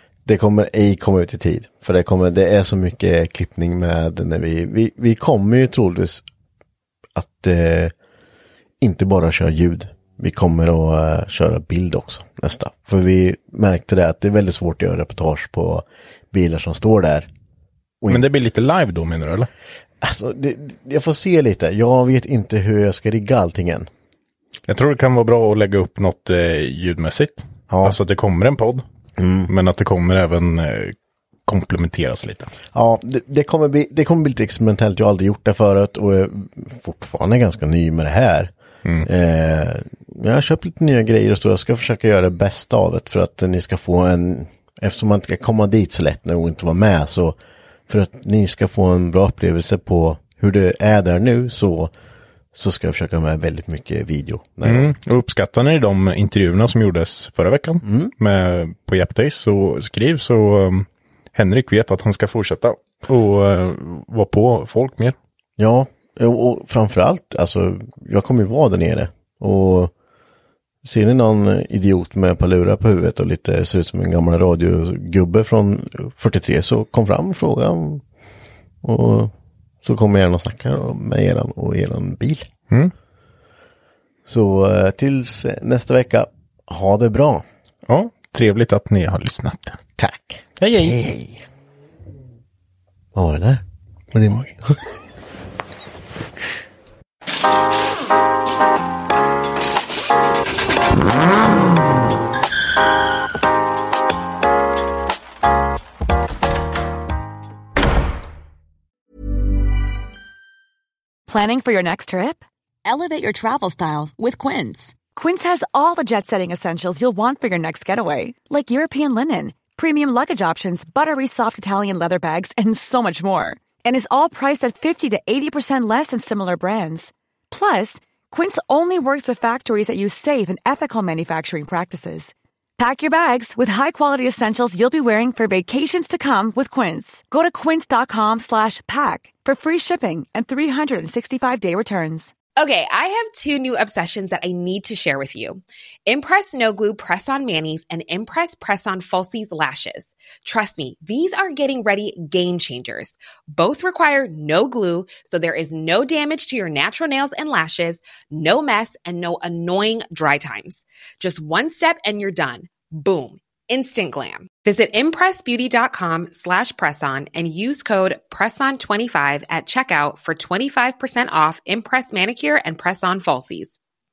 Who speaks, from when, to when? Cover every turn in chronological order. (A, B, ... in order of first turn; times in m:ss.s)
0:00.2-0:06.2 A
0:07.1-0:07.9 A
0:08.8-0:17.3 A
0:18.0-0:18.2 A
0:18.1-0:19.5 B
0:20.0-0:23.9 A
0:24.7-0:28.8 B
0:27.7-0:28.0 A
0:29.2-0:29.5 A
0:29.5-0:30.9 B
0:31.4-0:32.5 B
0:32.7-0:38.5 A
0:39.0-0:47.4 A
0:47.9-0:51.9 A
0:52.5-0:54.9 A
0:54.6-1:05.2 B
0:57.8-0:58.1 A
1:05.6-1:09.9 A
1:10.8-1:18.0 A
1:18.8-1:22.5 A
1:24.2-1:27.4 A
1:27.9-1:29.8 B
1:30.0-1:31.4 A
1:30.6-1:31.0 B
1:33.1-1:34.8 A
1:51.3-1:52.4 C
1:52.8-1:55.0 D
1:55.0-2:22.3 C
2:22.6-2:53.8 E